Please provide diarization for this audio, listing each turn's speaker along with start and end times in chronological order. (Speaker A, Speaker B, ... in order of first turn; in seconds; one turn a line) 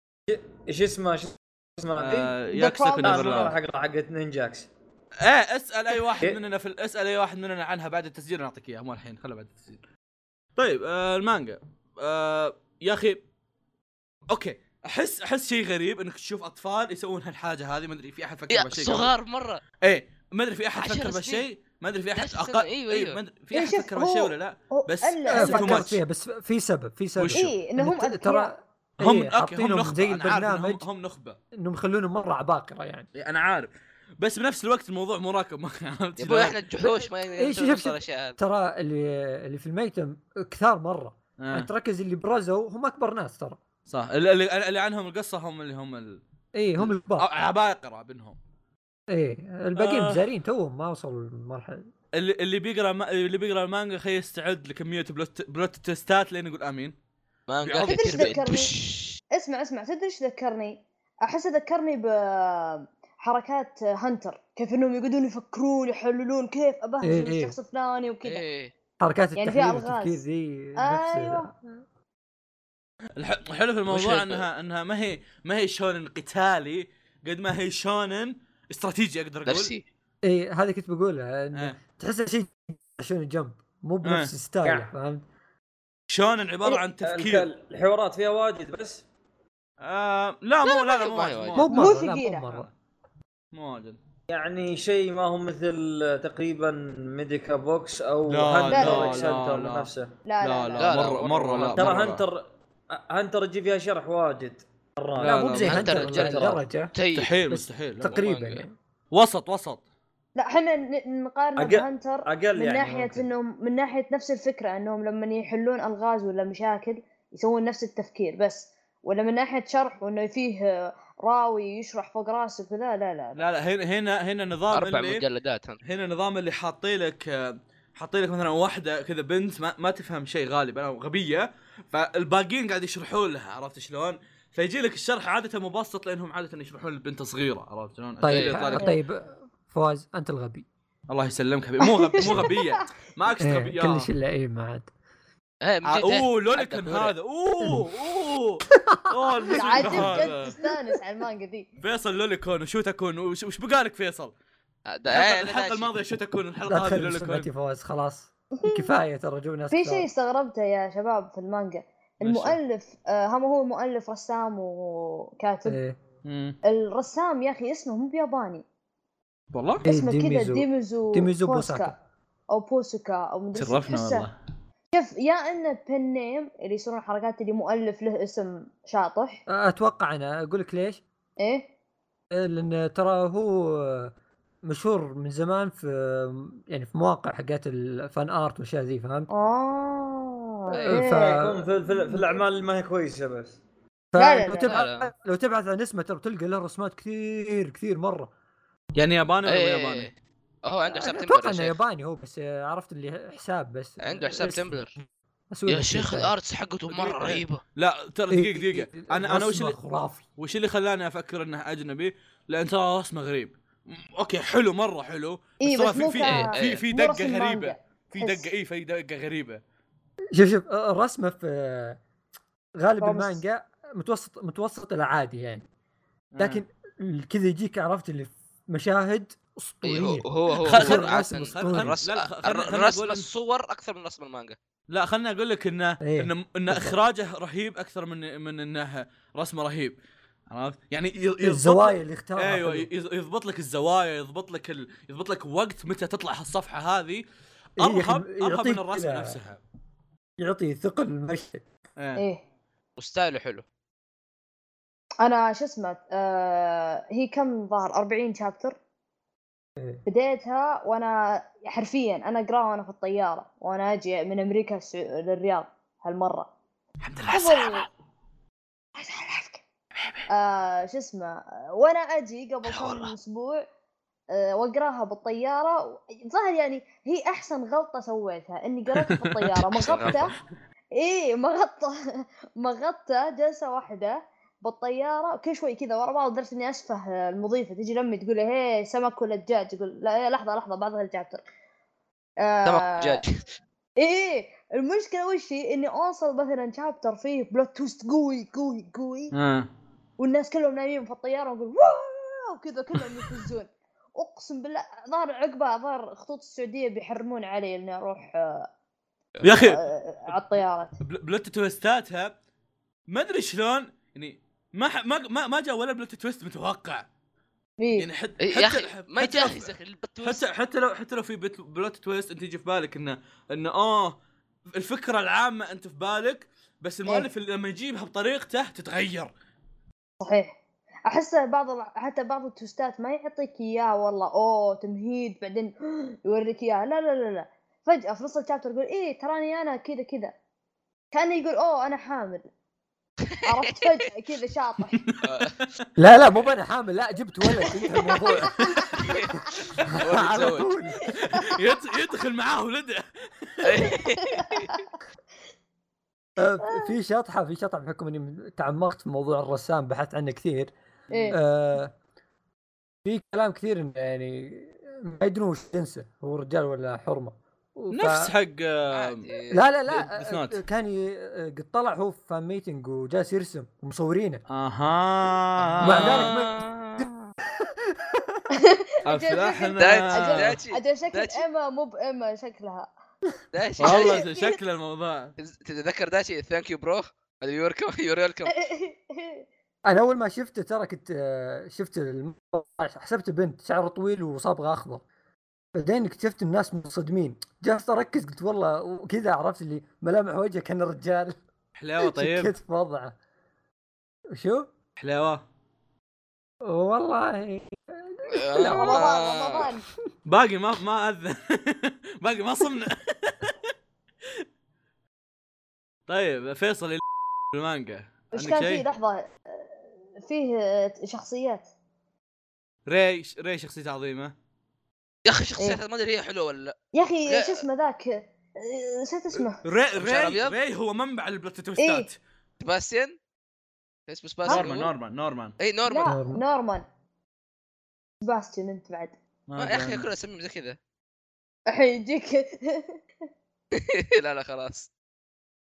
Speaker A: 0.3-2.3
Speaker B: 2.0-3.6
Speaker C: 2.5-3.5
Speaker A: 3.0-4.7
Speaker B: 5.2-9.8
Speaker B: 10.6-13.2
Speaker B: 14.3-19.1
Speaker D: 18.5-19.6
Speaker B: 19.8-26.0
Speaker D: 20.8-21.4
Speaker D: 22.2-23.2
Speaker C: 23.5-25.9
Speaker E: 25.3-30.8
Speaker B: 27.1-27.4
Speaker C: 27.3-28.5
Speaker B: 29.0-31.4
Speaker E: 31.5-33.1
Speaker B: 33.2-36.6
Speaker D: 36.2-38.4
Speaker E: 37.4-43.6
Speaker B: 41.4-41.7
Speaker B: 43.9-46.2
Speaker E: 46.5-47.2
Speaker B: 46.8-48.4
Speaker E: 49.1-51.9
Speaker B: 49.8-50.2
Speaker B: 52.1-56.9
Speaker D: 57.5-59.2
Speaker B: 57.6-58.4
Speaker C: 57.9-58.7
Speaker C: 59.3-68.4
Speaker E: 67.0-67.5
Speaker D: 68.2-68.7
Speaker E: 69.0-71.6
Speaker C: 69.3-70.2
Speaker C: 70.8-71.5
Speaker B: 73.2-79.7
Speaker D: 73.9-74.4
Speaker D: 79.5-79.8
Speaker E: 80.2-85.2
Speaker B: 84.0-84.3
Speaker A: 84.6-84.9
Speaker B: 86.1-87.5
Speaker A: 87.0-89.0
Speaker B: 89.8-92.0
Speaker D: 90.8-91.6
Speaker E: 91.5-92.7
Speaker C: 91.7-92.5
Speaker B: 93.5-94.0
Speaker A: 94.3-100.1
Speaker B: 98.3-102.2
Speaker C: 98.7-99.3
Speaker C: 100.3-101.0
Speaker D: 100.8-102.0
Speaker A: 101.5-106.6
Speaker B: 105.2-106.0
Speaker E: 105.2-106.9
Speaker D: 105.6-107.3
Speaker B: 107.1-108.2
Speaker E: 107.5-108.7
Speaker D: 108.1-108.6
Speaker B: 109.1-109.8
Speaker C: 110.4-123.4
Speaker A: 111.6-113.2
Speaker B: 123.3-125.2
Speaker D: 124.7-125.8
Speaker B: 125.8-138.9
Speaker E: 138.2-140.7
Speaker D: 138.3-138.7
Speaker B: 141.1-144.1
Speaker C: 141.8-142.7
Speaker E: 143.4-144.9
Speaker D: 145.6-147.1
Speaker B: 145.8-150.6
Speaker E: 148.7-150.2
Speaker C: 149.6-151.7
Speaker B: 151.8-154.3
Speaker D: 154.9-155.9
Speaker B: 155.1-157.5
Speaker E: 156.7-160.1
Speaker C: 158.6-158.9
Speaker C: 159.7-165.8
Speaker B: 162.2-162.6
Speaker E: 165.6-166.0
Speaker B: 166.2-166.6
Speaker C: 166.6-168.6
Speaker B: 169.5-169.8
Speaker E: 169.8-172.0
Speaker C: 169.9-171.9
Speaker C: 172.5-174.3
Speaker B: 173.5-174.3
Speaker C: 174.9-179.4
Speaker E: 179.5-181.0
Speaker C: 181.4-181.7
Speaker E: 182.3-184.1
Speaker E: 184.6-189.3
Speaker C: 189.3-191.4
Speaker E: 190.7-192.3
Speaker A: 191.0-193.6
Speaker E: 194.1-198.3
Speaker C: 194.2-194.8
Speaker D: 194.6-195.1
Speaker B: 198.9-200.1
Speaker D: 199.4-200.1
Speaker D: 200.6-201.7
Speaker E: 200.9-206.3
Speaker D: 204.0-204.9
Speaker D: 205.7-207.6
Speaker B: 206.9-209.8
Speaker E: 208.3-210.2
Speaker B: 210.4-219.6
Speaker C: 215.6-218.5
Speaker D: 216.2-216.8
Speaker E: 220.3-222.0
Speaker E: 222.8-225.7
Speaker C: 223.0-223.4
Speaker B: 226.3-226.6
Speaker E: 226.4-231.9
Speaker D: 229.8-234.6
Speaker B: 230.6-233.3
Speaker B: 234.9-240.0
Speaker E: 236.0-237.0
Speaker B: 240.5-247.2
Speaker E: 241.4-242.9
Speaker B: 247.8-249.6
Speaker E: 247.8-249.4
Speaker E: 250.4-251.6
Speaker B: 252.0-252.2
Speaker C: 252.2-252.4
Speaker D: 253.0-253.6
Speaker C: 255.2-258.8
Speaker C: 260.1-266.5
Speaker B: 267.0-267.9
Speaker C: 267.3-267.9
Speaker C: 268.9-269.6
Speaker B: 270.0-270.3
Speaker C: 270.3-273.6
Speaker B: 272.6-273.1
Speaker C: 274.3-280.3
Speaker B: 278.9-279.5
Speaker D: 279.7-280.2
Speaker B: 280.0-280.2
Speaker C: 280.9-291.4
Speaker C: 292.4-293.2
Speaker D: 292.6-293.4
Speaker C: 294.0-299.3
Speaker B: 299.3-299.7
Speaker C: 300.2-308.7
Speaker B: 309.4-309.8
Speaker C: 309.6-310.9
Speaker B: 311.0-312.3
Speaker B: 313.1-317.1
Speaker C: 317.8-318.1
Speaker B: 318.0-324.2
Speaker D: 318.4-320.4
Speaker B: 324.7-329.3
Speaker C: 330.2-340.3
Speaker C: 341.1-342.4
Speaker C: 343.4-345.0
Speaker B: 344.9-345.8
Speaker D: 345.2-345.6
Speaker E: 346.0-348.7
Speaker C: 348.1-348.8
Speaker D: 349.0-349.3
Speaker D: 350.0-350.7
Speaker E: 350.0-351.1
Speaker B: 351.1-353.9
Speaker D: 353.6-354.8
Speaker C: 354.2-354.9
Speaker E: 356.4-360.7
Speaker C: 356.6-356.9
Speaker E: 361.3-361.9
Speaker E: 363.0-368.3
Speaker B: 367.9-369.3
Speaker D: 368.9-369.6
Speaker E: 369.5-374.4
Speaker B: 369.9-370.6
Speaker B: 374.5-376.4
Speaker D: 375.8-377.3
Speaker E: 375.8-378.4
Speaker C: 378.6-382.9
Speaker B: 379.1-380.6
Speaker D: 379.8-381.4
Speaker D: 383.5-384.2
Speaker B: 383.8-385.3
Speaker C: 383.8-384.6
Speaker D: 385.4-388.5
Speaker C: 388.5-389.4
Speaker E: 389.9-395.0
Speaker E: 395.7-401.4
Speaker B: 401.8-402.5
Speaker E: 402.0-403.2
Speaker E: 404.3-404.7
Speaker B: 405.0-405.4
Speaker E: 406.6-409.1
Speaker D: 408.3-409.7
Speaker C: 408.6-409.8
Speaker B: 410.2-413.7
Speaker B: 416.1-418.9
Speaker C: 418.3-421.7
Speaker B: 422.9-424.3
Speaker D: 425.2-426.8
Speaker C: 426.9-429.6
Speaker D: 427.3-427.6
Speaker B: 429.6-432.2
Speaker D: 429.9-430.6
Speaker C: 431.8-432.1
Speaker D: 432.6-433.1
Speaker D: 434.1-434.9
Speaker B: 434.4-435.6
Speaker D: 435.6-436.1
Speaker C: 435.9-436.8
Speaker E: 436.1-436.4
Speaker C: 438.2-439.1
Speaker B: 439.5-440.1
Speaker D: 439.6-440.8
Speaker C: 441.7-443.0
Speaker D: 443.7-444.9